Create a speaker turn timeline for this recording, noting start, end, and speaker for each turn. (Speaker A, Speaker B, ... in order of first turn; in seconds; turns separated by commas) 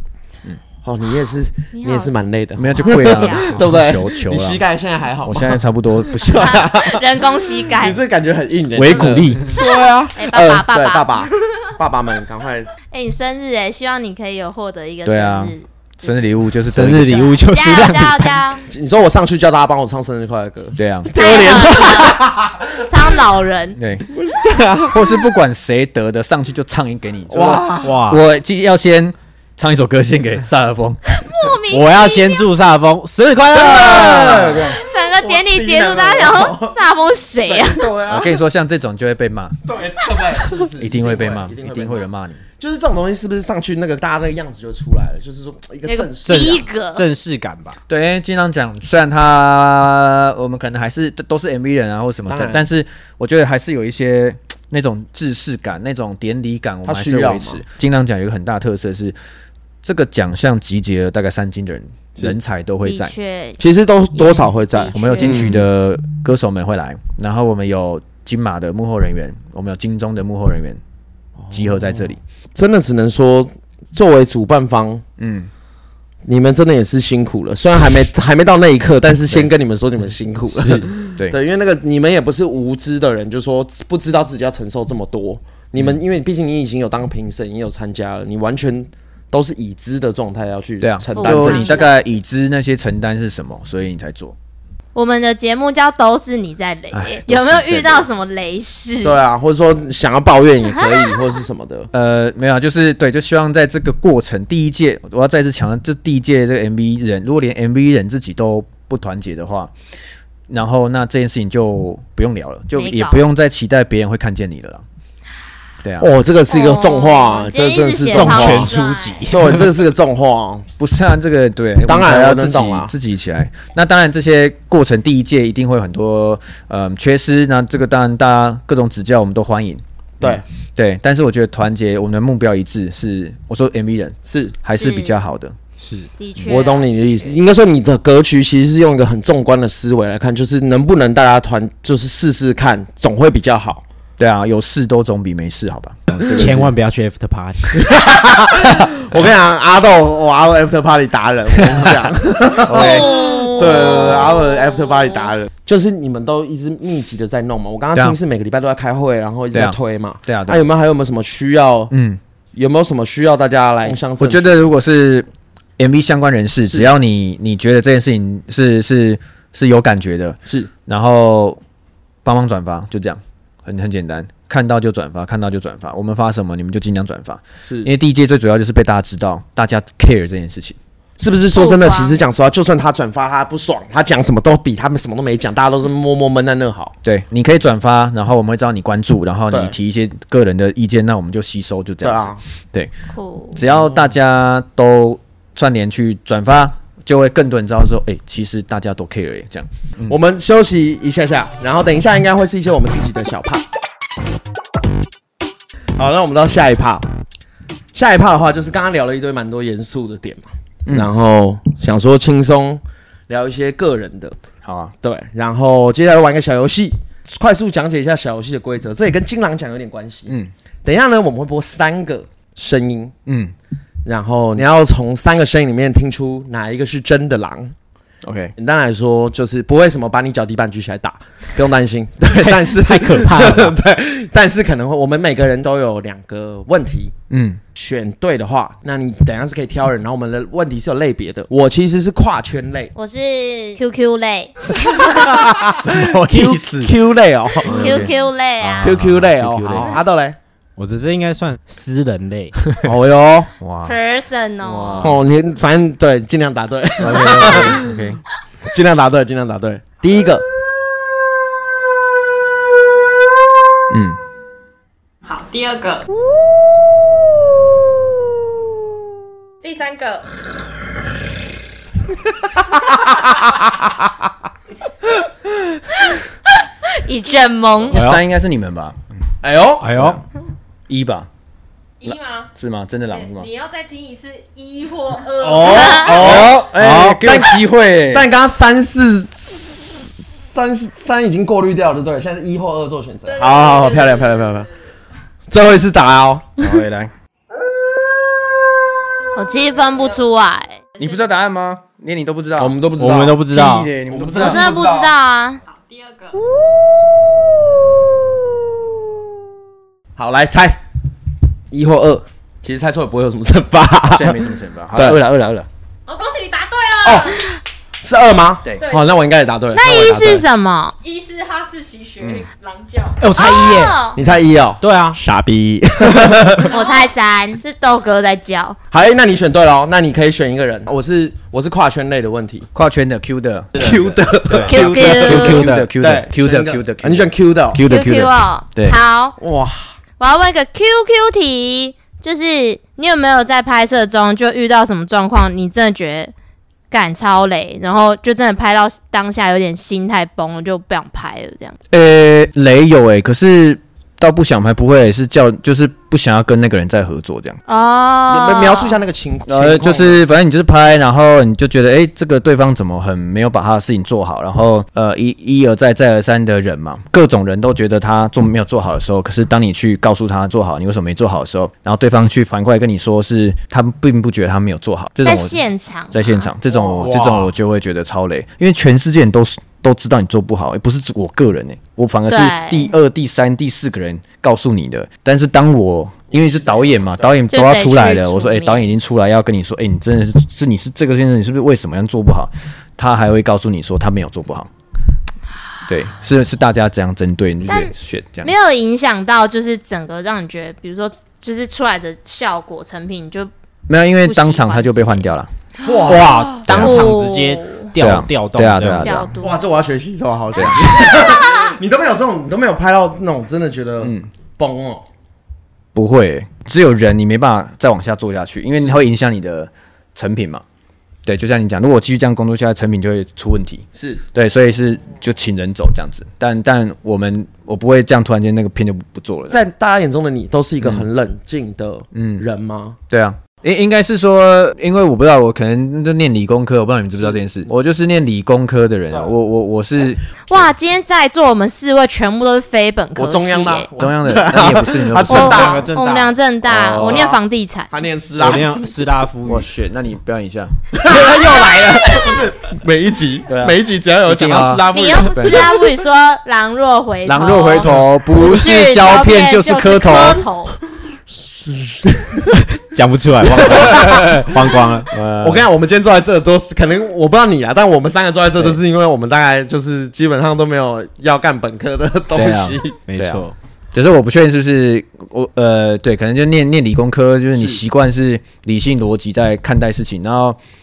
Speaker A: 0.8-12.7, Speaker B: 1.7-2.1, Speaker C: 2.6-4.6, Speaker B: 2.7-3.6, Speaker C: 5.2-6.7, Speaker B: 6.3-8.0, Speaker C: 8.8-9.5, Speaker B: 10.2-11.6, Speaker B: 12.9-16.3, Speaker C: 15.1-17.4, Speaker D: 16.7-18.4, Speaker B: 17.1-18.7, Speaker A: 18.7-23.0, Speaker C: 20.8-21.1, Speaker B: 21.1-22.3, Speaker B: 22.8-23.8, Speaker C: 23.8-24.1, Speaker A: 24.1-25.2, Speaker C: 24.9-31.2, Speaker A: 27.3-28.0, Speaker D: 27.8-28.2, Speaker B: 31.1-32.4, Speaker D: 31.7-34.7, Speaker A: 33.5-36.8, Speaker C: 33.6-34.7, Speaker B: 33.7-37.9, Speaker A: 37.4-38.4, Speaker C: 38.1-39.6, Speaker A: 39.6-42.1, Speaker C: 40.8-42.4, Speaker A: 42.6-46.6, Speaker B: 45.9-47.0, Speaker D: 46.3-47.8, Speaker C: 47.9-59.2, Speaker A: 52.3-52.6, Speaker A: 56.9-57.6, Speaker C: 59.8-63.1, Speaker B: 62.8-63.6, Speaker A: 63.6-65.7, Speaker B: 64.1-65.4, Speaker C: 64.9-70.8, Speaker A: 71.4-75.0, Speaker C: 71.5-72.2, Speaker C: 75.2-75.5, Speaker A: 76.2-91.9, Speaker D: 80.5-80.9, Speaker C: 90.8-94.3, Speaker B: 91.1-91.9, Speaker B: 95.0-99.2, Speaker C: 96.9-98.1, Speaker A: 99.0-101.9, Speaker C: 101.9-109.7, Speaker C: 110.5-114.8, Speaker B: 112.8-113.2, Speaker C: 115.8-116.1, Speaker A: 116.0-118.8, Speaker B: 116.5-119.2, Speaker D: 118.1-119.7, Speaker A: 119.3-120.7, Speaker C: 120.8-135.6, Speaker A: 121.9-122.9, Speaker A: 130.2-130.4, Speaker A: 134.2-134.6, Speaker B: 134.7-135.2, Speaker D: 135.8-136.1, Speaker B: 136.2-137.3, Speaker A: 136.4-143.8, Speaker C: 144.2-146.7, Speaker D: 146.2-147.8, Speaker A: 147.8-161.9, Speaker C: 151.6-152.0, Speaker C: 152.7-154.4, Speaker B: 152.8-154.2, Speaker C: 159.5-160.7, Speaker C: 161.9-162.2, Speaker A: 162.6-164.6, Speaker C: 164.2-165.3, Speaker C: 165.8-171.6, Speaker C: 172.2-180.8, Speaker A: 177.6-177.9, Speaker A: 181.2-186.9, Speaker B: 181.6-182.2, Speaker C: 187.0-192.9, Speaker A: 192.0-192.4, Speaker B: 193.1-193.6, Speaker C: 193.5-200.2, Speaker A: 200.1-203.7, Speaker A: 206.0-207.1, Speaker A: 207.9-214.4, Speaker C: 214.6-214.9, Speaker A: 215.0-223.1, Speaker C: 223.3-223.5, Speaker A: 224.1-227.8, Speaker C: 228.2-228.5, Speaker A: 228.6-237.1, Speaker D: 232.3-233.8, Speaker C: 237.3-237.6, Speaker A: 237.8-242.9, Speaker B: 243.0-245.1, Speaker A: 244.6-248.1, Speaker C: 245.0-246.9, Speaker C: 247.6-249.9, Speaker B: 247.7-249.0, Speaker A: 248.8-250.4, Speaker D: 250.8-252.6, Speaker A: 252.8-253.5, Speaker C: 253.6-253.9, Speaker B: 253.8-255.1, Speaker C: 254.6-255.2, Speaker A: 255.0-258.0, Speaker C: 257.0-258.2, Speaker A: 258.7-260.4, Speaker C: 263.9-264.2, Speaker E: 265.2-266.1, Speaker E: 269.6-270.3, Speaker B: 276.9-278.0, Speaker C: 277.9-279.0, Speaker D: 277.9-278.2, Speaker A: 279.4-279.9, Speaker D: 279.8-280.2, Speaker C: 279.9-280.2, Speaker C: 280.9-281.3, Speaker E: 282.0-282.5, Speaker C: 282.1-283.5, Speaker E: 283.1-286.3, Speaker A: 285.4-294.7, Speaker B: 285.6-286.1, Speaker C: 286.0-288.3, Speaker D: 286.8-287.2, Speaker E: 293.3-294.6, Speaker A: 295.5-296.8, Speaker C: 296.6-297.1, Speaker B: 299.4-300.8, Speaker C: 301.0-304.7, Speaker A: 302.6-303.5, Speaker D: 303.0-303.9, Speaker A: 304.1-305.1, Speaker B: 304.4-305.6, Speaker E: 305.7-306.4, Speaker A: 310.2-310.8, Speaker A: 311.7-315.2, Speaker C: 314.1-315.7, Speaker E: 316.1-317.5, Speaker A: 317.0-317.4, Speaker A: 318.0-320.4, Speaker E: 318.8-319.1, Speaker B: 319.8-321.0, Speaker E: 321.0-323.2, Speaker D: 323.2-324.0, Speaker B: 323.4-324.2, Speaker A: 324.1-326.7, Speaker D: 324.8-325.2, Speaker B: 326.7-328.8, Speaker E: 326.7-327.1, Speaker A: 328.9-332.7, Speaker C: 332.8-339.0, Speaker A: 333.8-337.8, Speaker D: 334.5-335.9, Speaker B: 334.7-335.6, Speaker B: 337.9-339.4, Speaker A: 339.4-339.9, Speaker B: 340.2-346.3, Speaker B: 346.9-351.8, Speaker C: 351.9-357.6, Speaker B: 357.7-359.0, Speaker A: 358.3-360.2, Speaker C: 359.5-375.6, Speaker B: 375.2-376.5, Speaker C: 376.1-394.7, Speaker A: 376.7-377.5, Speaker B: 382.3-382.9, Speaker A: 386.3-387.4, Speaker B: 387.5-388.8, Speaker C: 395.9-398.5, Speaker B: 397.7-403.5, Speaker C: 403.9-405.5, Speaker B: 404.2-405.3, Speaker A: 405.8-406.5, Speaker D: 406.1-409.3, Speaker B: 406.6-407.9, Speaker C: 406.7-407.1, Speaker C: 408.0-409.3, Speaker B: 409.0-409.6, Speaker A: 409.4-415.1, Speaker C: 410.6-411.0, Speaker C: 414.0-414.3, Speaker C: 415.9-420.6, Speaker C: 421.3-429.6, Speaker A: 423.9-424.2, Speaker A: 429.5-433.0, Speaker C: 432.1-432.4, Speaker C: 433.1-440.6, Speaker B: 440.5-443.9, Speaker A: 443.2-445.9, Speaker C: 444.0-445.8, Speaker B: 445.3-447.9, Speaker D: 445.5-446.3, Speaker C: 446.7-447.3, Speaker A: 447.0-447.4, Speaker A: 447.9-448.9, Speaker D: 448.4-449.7, Speaker C: 449.4-450.9, Speaker A: 450.9-455.8, Speaker C: 453.5-455.8, Speaker B: 454.9-460.8, Speaker C: 457.3-460.4, Speaker A: 461.4-462.6, Speaker D: 462.9-465.1, Speaker A: 463.5-464.8, Speaker C: 463.7-464.5, Speaker C: 465.1-465.7, Speaker A: 465.4-473.0, Speaker C: 472.3-480.6, Speaker D: 473.1-473.5, Speaker A: 477.6-477.8